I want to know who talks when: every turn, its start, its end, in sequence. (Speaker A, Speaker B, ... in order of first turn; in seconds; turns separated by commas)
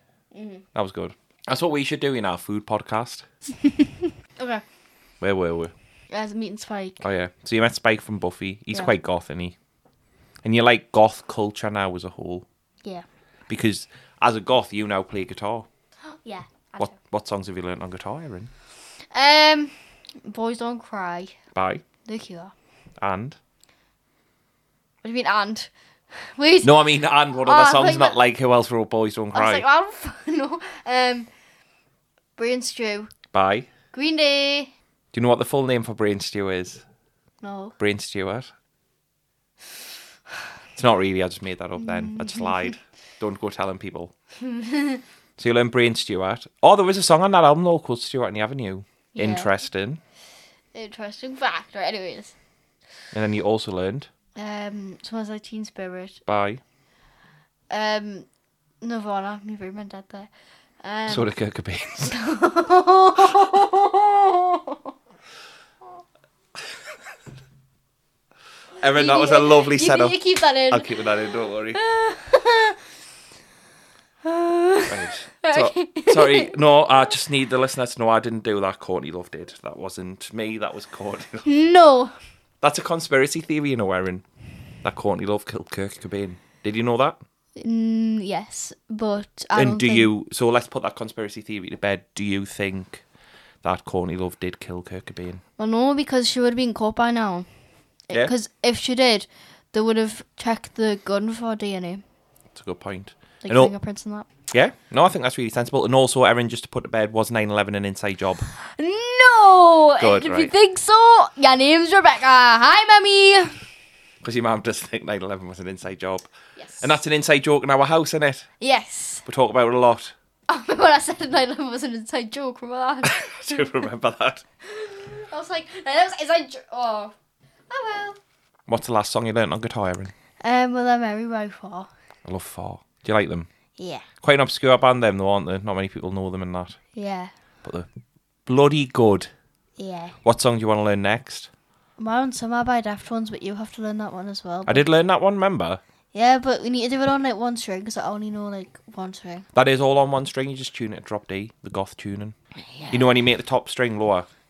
Speaker A: 0.3-0.6, Speaker B: 0.7-3.2, Speaker A: 4.4-4.6, Speaker B: 5.2-5.7, Speaker A: 6.1-7.0, Speaker B: 7.0-9.5, Speaker B: 10.4-12.4, Speaker B: 13.5-15.7, Speaker A: 16.1-16.9, Speaker B: 16.8-18.5, Speaker A: 19.1-21.4, Speaker B: 21.5-21.8, Speaker A: 22.0-22.5, Speaker B: 23.0-23.4, Speaker A: 25.0-25.7, Speaker A: 26.4-26.7, Speaker B: 26.6-29.6, Speaker A: 27.4-28.2, Speaker A: 29.3-31.3, Speaker A: 32.4-33.1, Speaker B: 33.3-33.7, Speaker A: 33.9-34.7, Speaker B: 35.1-36.8, Speaker A: 37.4-37.7, Speaker B: 37.8-38.5, Speaker B: 40.8-44.1, Speaker A: 41.8-42.7, Speaker A: 44.4-45.0, Speaker B: 45.4-50.0, Speaker A: 49.1-49.5, Speaker A: 50.7-52.3, Speaker B: 53.1-54.1, Speaker A: 54.4-56.2, Speaker B: 56.3-56.6, Speaker A: 57.7-58.2, Speaker A: 58.8-60.3, Speaker A: 60.8-61.3, Speaker B: 61.1-62.1, Speaker A: 62.1-64.7, Speaker B: 68.8-71.8, Speaker A: 68.9-71.0, Speaker A: 71.7-72.8, Speaker A: 74.2-76.6, Speaker B: 74.9-81.5, Speaker A: 81.4-82.1, Speaker B: 82.6-84.2, Speaker B: 84.8-87.2, Speaker A: 87.5-90.1, Speaker B: 89.5-93.0, Speaker B: 93.6-95.4, Speaker A: 95.6-97.5, Speaker A: 98.1-102.0, Speaker B: 102.5-103.7, Speaker A: 103.4-104.3, Speaker B: 104.5-108.5, Speaker A: 108.7-113.5, Speaker B: 110.0-110.5, Speaker B: 114.2-116.3, Speaker A: 116.5-117.0, Speaker B: 116.8-118.5, Speaker A: 118.6-119.2, Speaker B: 119.2-120.1, Speaker A: 120.5-123.6, Speaker B: 123.0-124.4, Speaker A: 124.7-127.1, Speaker A: 127.7-128.2, Speaker B: 128.7-130.1, Speaker A: 130.4-131.9, Speaker B: 132.2-133.5, Speaker A: 133.8-134.0, Speaker B: 134.2-136.8, Speaker A: 136.9-137.3, Speaker B: 138.4-139.3, Speaker A: 139.8-140.1, Speaker B: 140.2-141.5, Speaker A: 142.0-144.8, Speaker B: 144.7-145.8, Speaker A: 146.1-149.4, Speaker B: 149.5-152.3, Speaker A: 152.7-153.0, Speaker B: 152.9-154.3